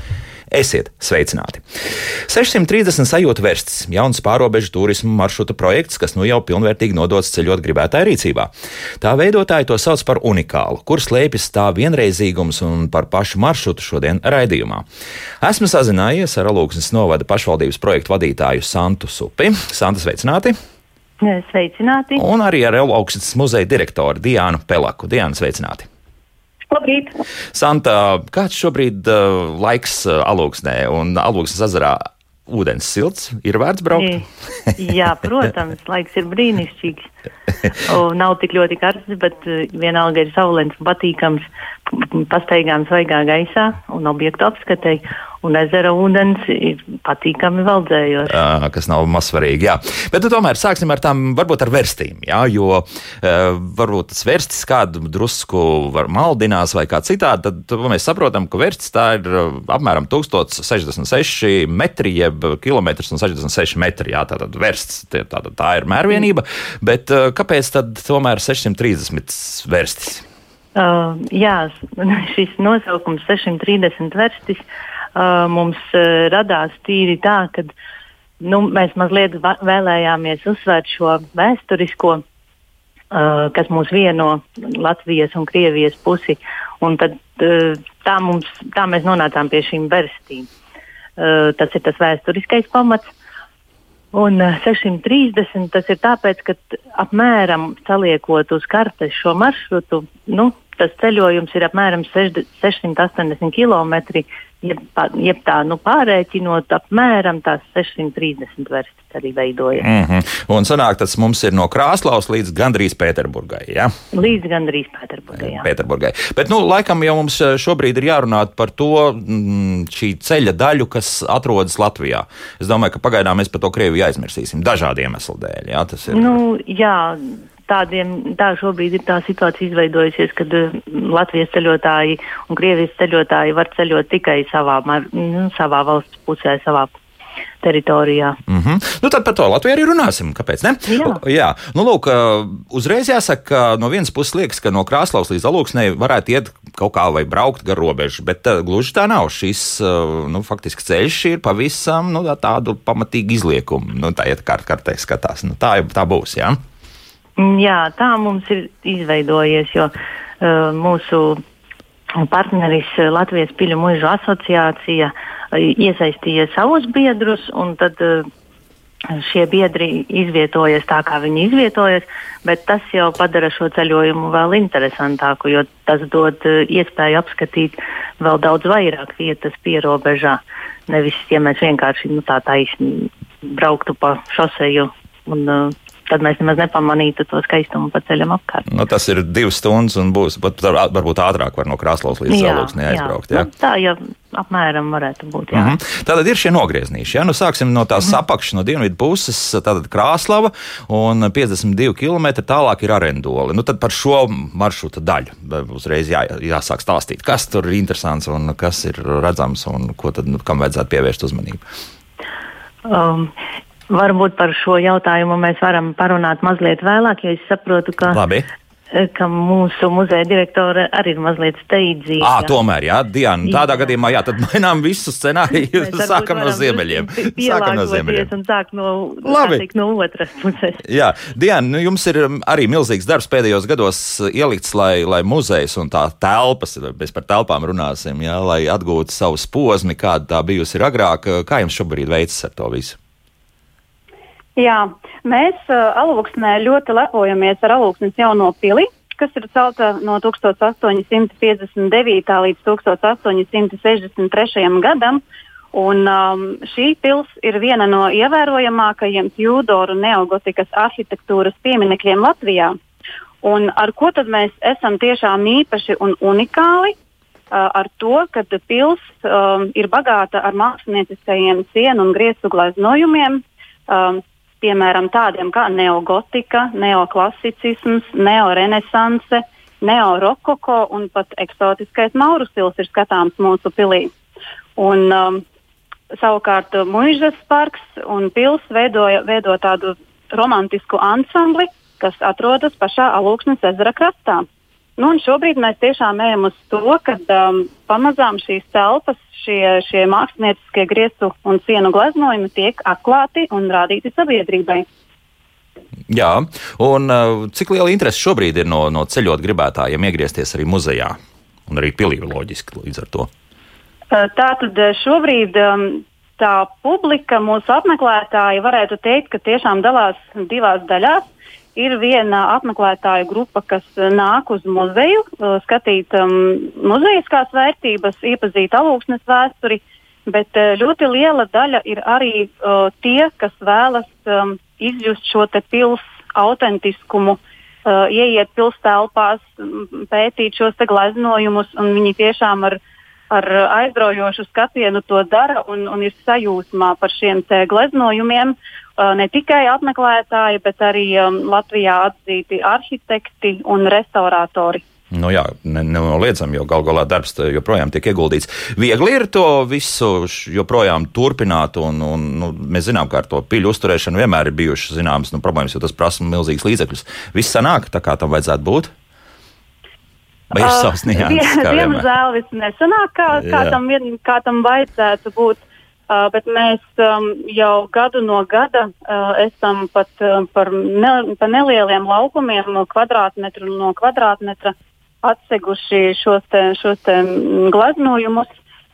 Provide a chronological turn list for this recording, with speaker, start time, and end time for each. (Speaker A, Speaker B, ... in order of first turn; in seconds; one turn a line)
Speaker A: 0.5-1.6
Speaker A: 2.3-8.5
Speaker A: 9.0-14.8
Speaker A: 15.4-20.6
Speaker B: 21.2-22.2
Speaker A: 22.2-25.9
Speaker C: 26.7-27.1
Speaker A: 27.5-34.8
Speaker B: 33.9-34.2
Speaker B: 34.8-37.1
Speaker B: 37.8-48.3
Speaker A: 48.3-70.2
Speaker B: 70.8-74.6
Speaker B: 75.1-77.7
Speaker B: 78.4-82.2
Speaker B: 83.1-90.5
Speaker B: 91.2-93.1
Speaker B: 94.1-109.9
Speaker A: 109.8-113.9
Speaker B: 114.1-115.7
Speaker A: 115.4-126.4
Speaker B: 126.1-136.9
Speaker B: 137.6-138.4
Speaker A: 138.5-156.6
Speaker B: 140.9-141.2
Speaker B: 157.4-161.4
Speaker B: 162.2-168.3
Speaker B: 169.1-188.7
Speaker A: 188.7-193.5
Speaker B: 192.3-195.8
Speaker A: 195.5-211.6
Speaker B: 212.8-213.3
Speaker B: 213.9-218.2
Speaker A: 218.1-218.5
Speaker B: 218.9-222.6
Speaker A: 222.2-228.3
Speaker B: 223.4-223.9
Speaker B: 225.5-230.8
Speaker A: 229.2-229.6
Speaker A: 230.8-243.0
Speaker C: 244.6-255.2
Speaker C: 255.7-262.8
Speaker C: 263.4-266.9
Speaker C: 267.5-284.1
Speaker C: 284.8-285.4
Speaker C: 286.2-294.4
Speaker C: 295.0-304.8
Speaker A: 306.1-311.2
Speaker A: 311.7-313.3
Speaker C: 314.1-321.2
Speaker C: 321.8-342.8
Speaker C: 343.3-354.8
Speaker A: 355.1-368.9
Speaker A: 370.5-372.0
Speaker C: 370.5-388.5
Speaker A: 373.4-373.8